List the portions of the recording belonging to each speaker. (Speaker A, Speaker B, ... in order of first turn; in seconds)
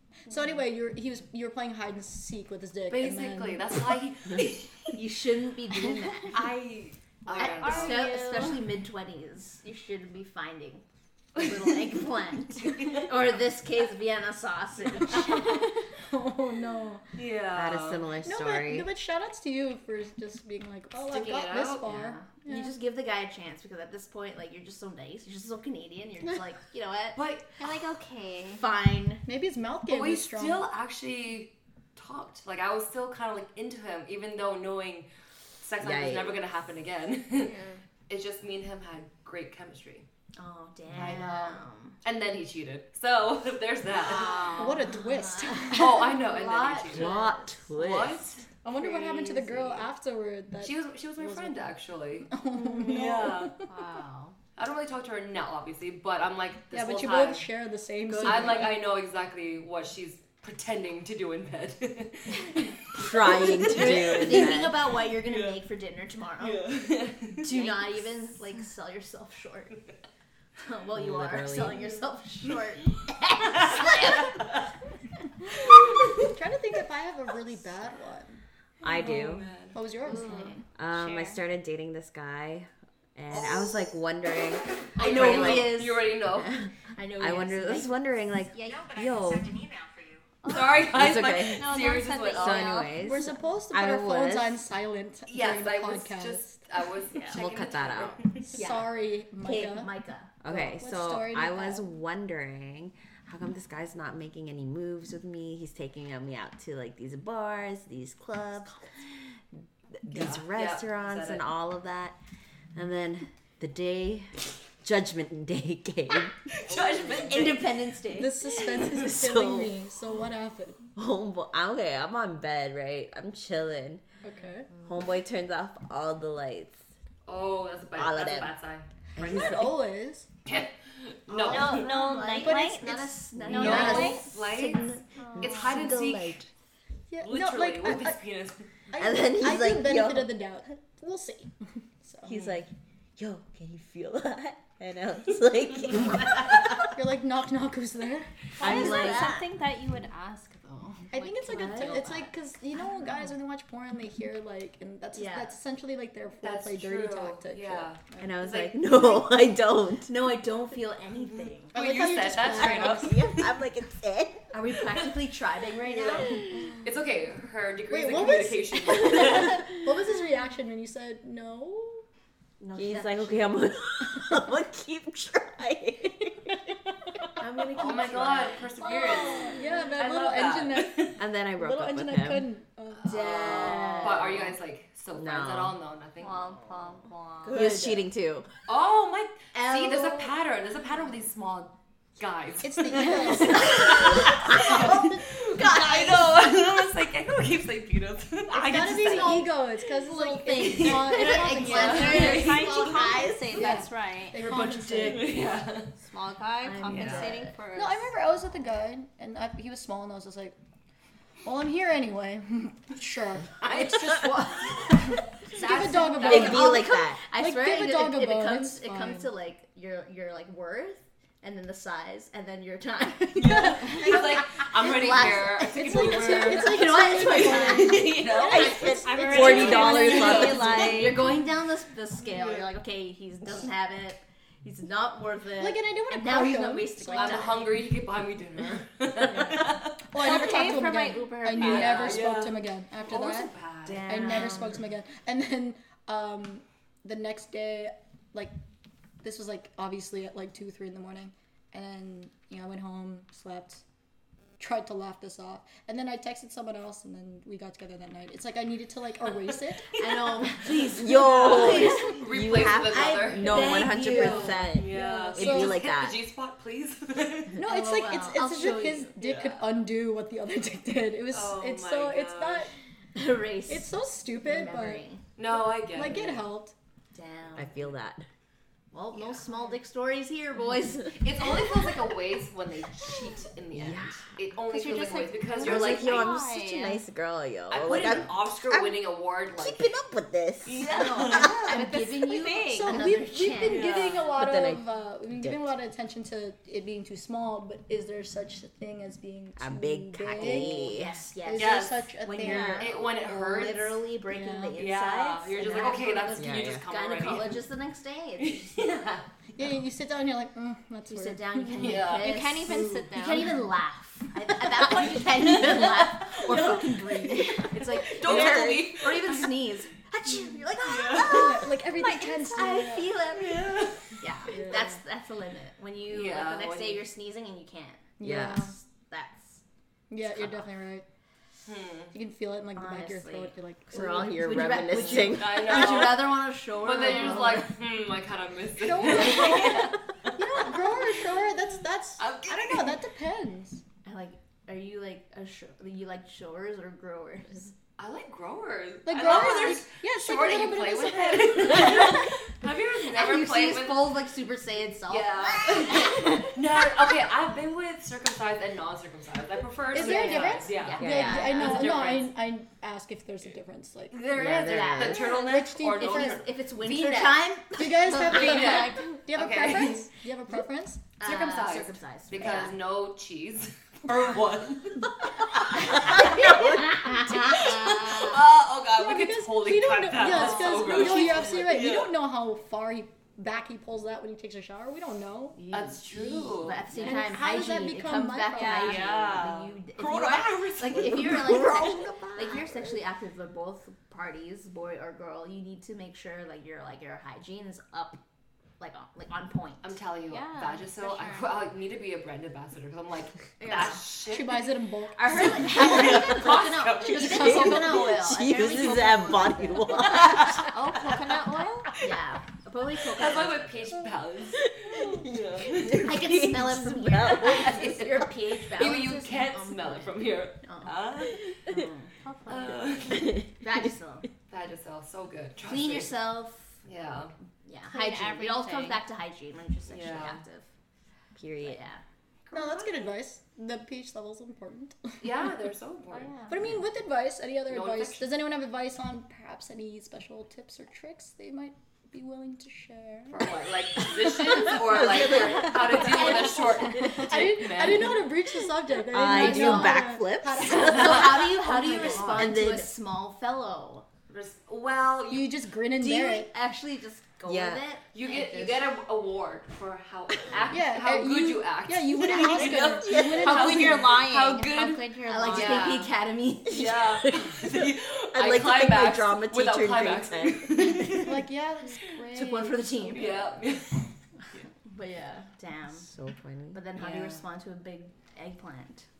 Speaker A: 0.3-3.8, 16.0-17.0, 18.2-22.8, 29.2-30.7, 44.4-46.2, 48.6-51.6, 52.3-53.6, 56.7-58.9, 76.3-78.4, 79.7-80.5, 93.0-96.6, 98.5-99.9, 100.4-101.8, 118.1-120.8, 124.2-124.7, 129.2-130.3, 132.4-134.0, 137.1-138.2, 138.9-142.5, 146.9-148.6, 151.1-158.4, 161.7-163.2, 167.9-172.0, 178.8-183.7, 192.6-195.3, 198.5-202.5, 203.5-205.4, 207.7-210.5, 211.4-219.3, 223.5-224.4, 225.1-230.6, 235.6-237.7, 239.3-243.5, 244.0-248.5, 249.2-253.8, 254.6-260.1, 264.1-265.8, 267.6-272.7, 273.7-275.1, 275.9-276.7, 292.6-303.0, 304.2-304.8, 309.6-313.3, 321.1-323.1, 324.5-325.0, 328.2-328.7, 330.1-331.0, 332.1-334.4, 338.8-343.8, 349.1-352.1, 359.9-364.2, 365.1-366.4, 367.7-371.1, 376.0-376.6, 379.0-385.6, 386.9-389.0, 404.3-406.4, 407.0-408.1, 432.5-435.5, 436.5-445.4, 445.9-452.5, 455.3-456.5, 460.7-464.2, 471.1-473.4
Speaker B: 2.9-5.0, 6.3-8.1, 12.6-13.1, 17.1-18.1, 21.1-21.9, 27.1-27.5, 29.9-35.1, 35.6-40.1, 40.9-44.6, 45.7-47.1, 47.7-49.9, 50.6-53.5, 54.6-57.5, 58.2-64.5, 65.0-65.6, 66.4-67.9, 78.8-79.8, 83.3-83.9, 85.0-86.7, 90.5-92.8, 95.3-98.5, 110.1-111.4, 116.5-117.7, 118.6-118.9, 127.2-129.4, 130.4-131.8, 133.5-136.4, 137.2-138.7, 156.4-158.8, 161.2-163.6, 165.7-169.7, 177.7-181.2, 183.0-186.5, 188.7-199.5, 200.6-203.1, 205.0-205.9, 206.9-207.3, 215.6-216.6, 223.3-230.9, 232.2-232.7, 237.1-240.0, 241.5-244.1, 260.6-263.8, 264.7-267.6, 269.2-269.7, 271.3-272.7, 275.4-276.5, 281.1-286.4, 287.7-289.9, 290.6-292.0, 293.7-294.3, 301.5-302.0, 302.6-304.0, 304.8-307.7, 308.4-309.3, 311.8-312.4, 314.8-319.7, 320.8-321.6, 323.3-324.2, 326.1-327.1, 331.6-332.1, 335.0-340.7, 342.2-343.0, 348.0-354.1, 355.1-362.3, 364.1-367.4, 368.0-370.1, 371.2-382.2, 385.7-386.9, 388.8-391.7, 399.8-404.7, 405.4-407.6, 413.1-416.2, 417.4-421.6, 422.5-423.4, 424.5-426.2, 426.8-427.3, 429.9-430.4, 432.5-433.1, 435.2-436.5, 437.7-438.4, 443.3-448.3, 451.8-452.4, 454.3-455.6, 458.1-466.1, 466.7-471.4, 473.1-474.6, 476.9-477.4
Speaker C: 4.9-6.5, 7.2-10.8, 11.3-15.7, 21.8-27.3, 28.6-29.2, 40.3-42.0, 44.1-47.7, 58.0-58.7, 63.0-66.8, 67.4-69.8, 70.6-74.5, 80.1-80.6, 85.0-86.1, 86.9-88.0, 98.5-100.3, 117.0-118.5, 131.3-134.5, 139.0-140.3, 148.6-149.4, 151.4-152.3, 155.1-155.5, 160.0-161.8, 164.5-166.7, 172.6-173.5, 177.4-179.3, 183.0-184.6, 187.4-188.1, 189.5-190.3, 198.9-203.8, 204.4-205.3, 206.6-207.6, 215.5-228.2, 229.5-237.8, 243.9-244.8, 259.9-262.2, 262.9-264.8, 267.6-269.1, 273.1-273.9, 274.4-275.2, 277.1-277.8, 278.9-281.6, 290.8-294.0, 300.4-308.7, 311.1-329.6, 330.2-330.7, 332.7-337.8, 344.0-347.7, 351.7-352.3, 353.1-356.6, 359.9-362.2, 364.2-368.9, 371.2-372.8, 375.7-378.4, 380.3-381.5, 385.5-398.2, 398.8-399.9, 403.6-404.0, 405.1-410.4, 412.0-414.0, 416.0-421.0, 421.6-422.1, 423.6-424.3, 425.6-426.8, 427.6-430.7, 431.6-432.0, 445.9-447.1, 449.2-454.1, 455.9-458.9, 465.2-467.1, 472.3-473.6, 474.8-476.1, 476.7-479.1
Speaker D: 7.3-8.6, 27.6-28.6, 44.1-44.9, 53.6-54.4, 80.0-81.4, 88.5-88.9, 90.4-93.1, 131.5-134.3, 135.2-135.9, 148.6-152.3, 179.2-179.6, 186.2-187.8, 201.7-204.6, 206.0-208.1, 229.0-231.3, 240.2-242.3, 284.7-287.0, 292.0-293.1, 302.4-302.8, 312.2-313.6, 388.5-389.2, 400.3-401.6, 410.2-411.9, 422.2-423.0, 427.9-429.0, 436.1-436.7, 445.6-447.1, 463.2-466.0
Speaker E: 17.5-18.9, 35.8-36.4, 40.9-41.2, 46.9-48.2, 62.9-64.8, 70.9-71.8, 78.8-79.5, 80.8-85.8, 86.4-86.7, 87.2-89.8, 90.8-91.7, 92.3-94.6, 97.3-98.2, 100.4-108.8, 110.0-112.2, 112.7-117.6, 118.8-119.7, 121.0-124.0, 124.8-126.8, 128.0-128.5, 129.2-129.8, 133.3-136.5, 139.1-140.1, 142.2-146.9, 148.6-149.4, 158.2-160.3, 162.6-164.4, 172.6-176.7, 177.4-178.0, 181.2-182.5, 185.1-185.8, 187.5-188.5, 216.2-217.2, 228.3-231.1, 243.8-244.7, 260.9-266.2, 277.6-278.3, 283.7-284.2, 285.6-289.0, 289.6-291.2, 294.3-295.7, 299.6-301.2, 306.4-306.8, 318.2-318.9, 328.2-328.7, 333.9-336.1, 361.0-361.5, 364.3-365.3, 391.1-393.0, 407.1-411.2, 414.6-417.9, 423.1-423.9, 431.3-431.8, 444.8-446.0, 449.1-451.6, 452.1-452.9, 457.4-457.8, 462.4-463.6, 466.9-471.3, 476.0-476.8